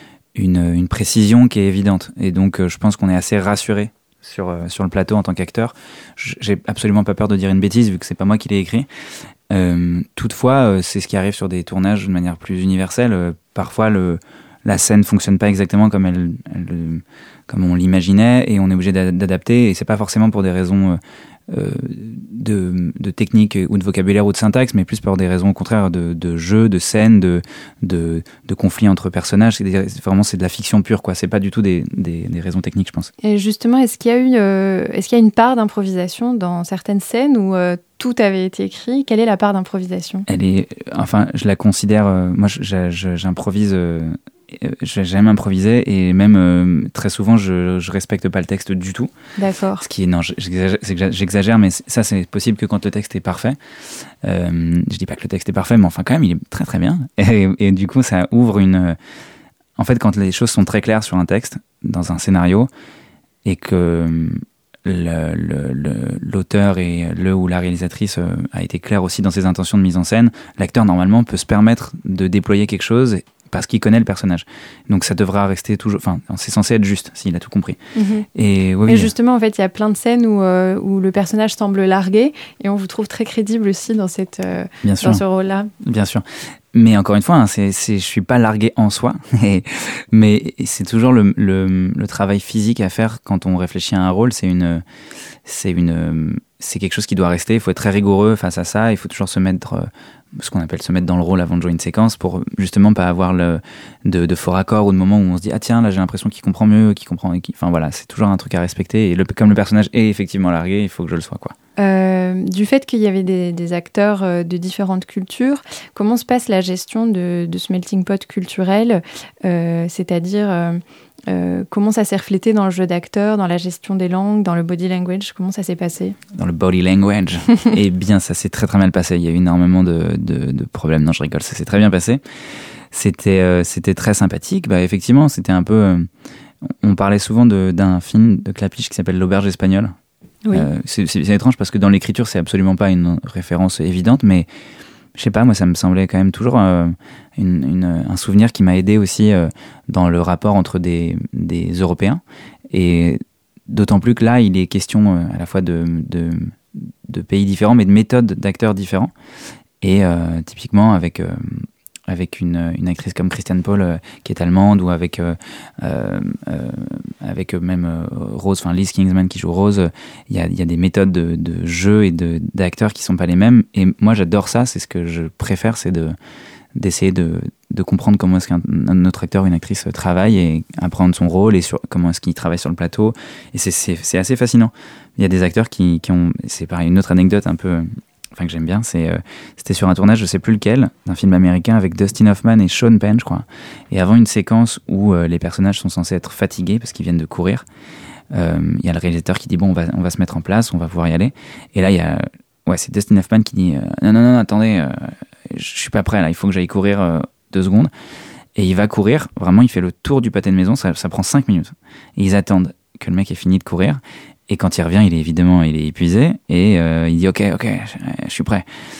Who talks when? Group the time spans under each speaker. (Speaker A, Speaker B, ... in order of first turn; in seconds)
Speaker A: 0.3-8.9, 9.5-21.0, 21.5-33.1, 40.3-49.1, 49.8-53.6, 54.2-59.0, 59.8-62.7, 63.4-77.8, 78.3-79.1, 84.8-85.2, 85.8-94.8, 95.5-111.5, 126.3-132.2, 132.9-136.1, 136.8-139.9, 140.5-144.5, 145.2-159.1, 159.8-176.2, 176.7-197.6, 198.3-207.9, 208.6-218.6
Speaker B: 33.2-40.2, 49.4-49.8, 77.9-78.2, 78.8-85.7, 111.8-126.2